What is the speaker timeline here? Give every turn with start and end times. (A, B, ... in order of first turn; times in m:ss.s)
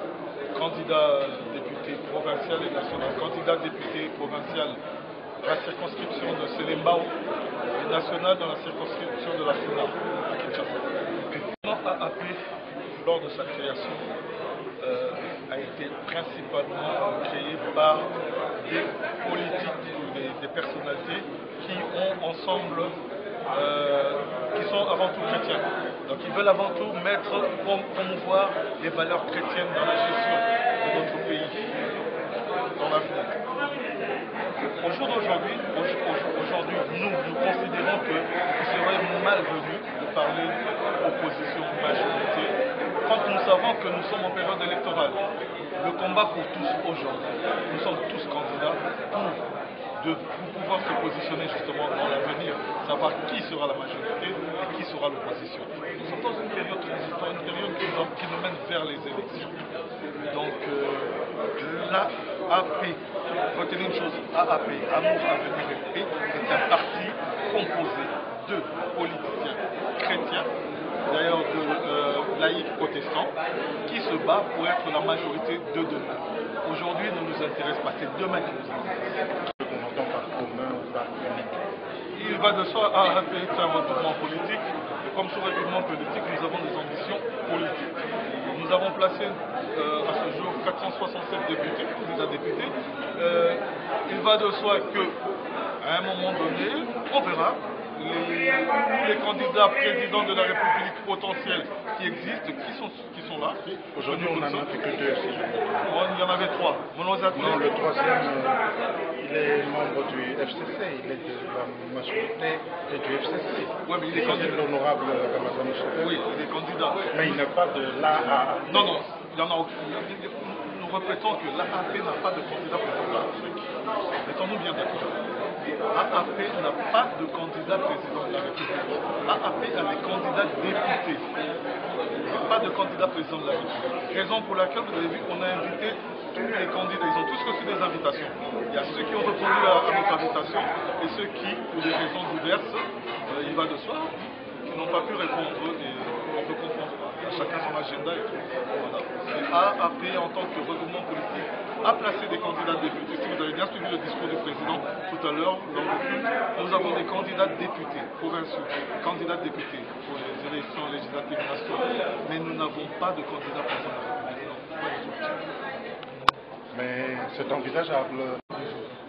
0:00.5-0:04.8 A
0:05.4-0:07.2 A
0:07.7-0:14.1 A
0:14.8-0:23.0 A
0:23.5-0:31.6 A
0:32.7-0:33.4 A
0:34.8-0:45.2 A
0:45.8-0:49.4 A
0:50.0-0:59.6 A
1:00.3-1:03.0 A
1:03.5-1:10.5 A
1:11.1-1:19.2 A
1:19.6-1:21.6 B
1:22.1-1:35.2 A
1:35.8-1:44.7 A
1:43.9-1:45.9 B
1:45.8-1:47.6 A
1:47.3-1:48.6 B
1:49.2-1:56.1 B
1:53.8-1:54.6 A
1:55.9-1:57.4 A
1:57.1-1:59.0 B
1:58.6-2:03.6 A
2:04.2-2:05.2 A
2:05.9-2:11.2 A
2:12.2-2:45.4 A
2:46.7-2:48.8 B